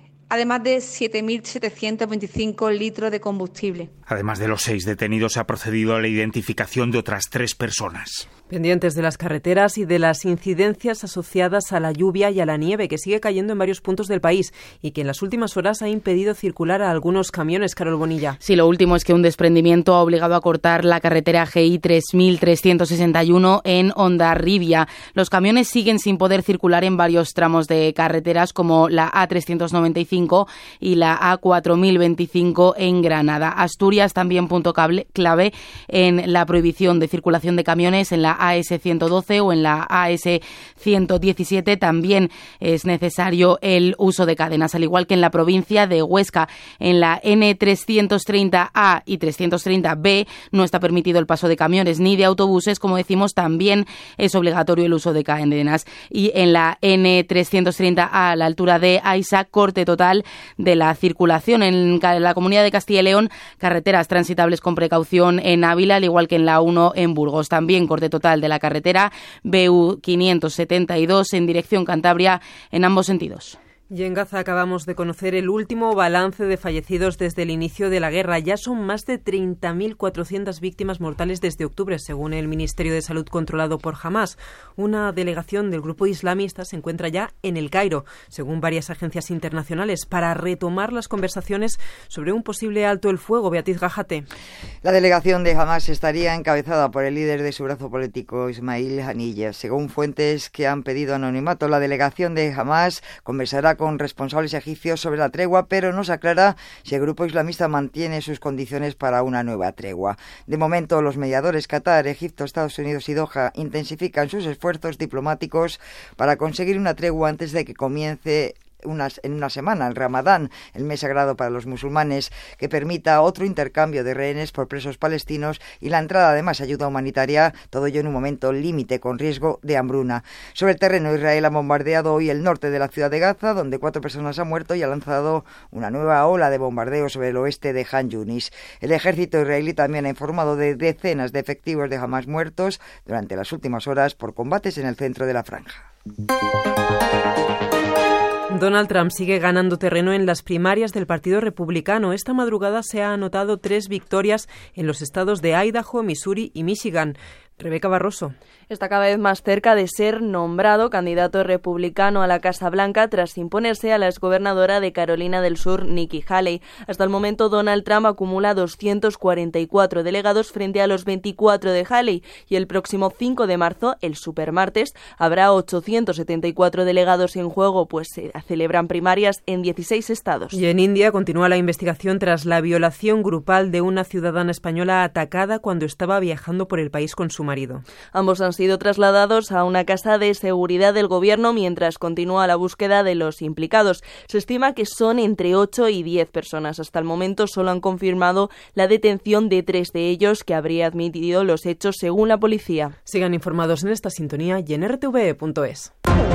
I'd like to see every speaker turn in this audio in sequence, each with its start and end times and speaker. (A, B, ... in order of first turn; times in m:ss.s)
0:00.3-0:03.9 A
0:04.1-0:08.2 B
0:08.5-0:18.4 C
0:18.4-1:13.6 D
1:13.9-1:34.3 C
1:34.8-2:25.8 E
2:28.5-2:38.3 C
2:38.7-3:00.6 F
3:00.5-3:07.8 C
3:08.1-3:22.9 F
3:23.1-3:25.9 C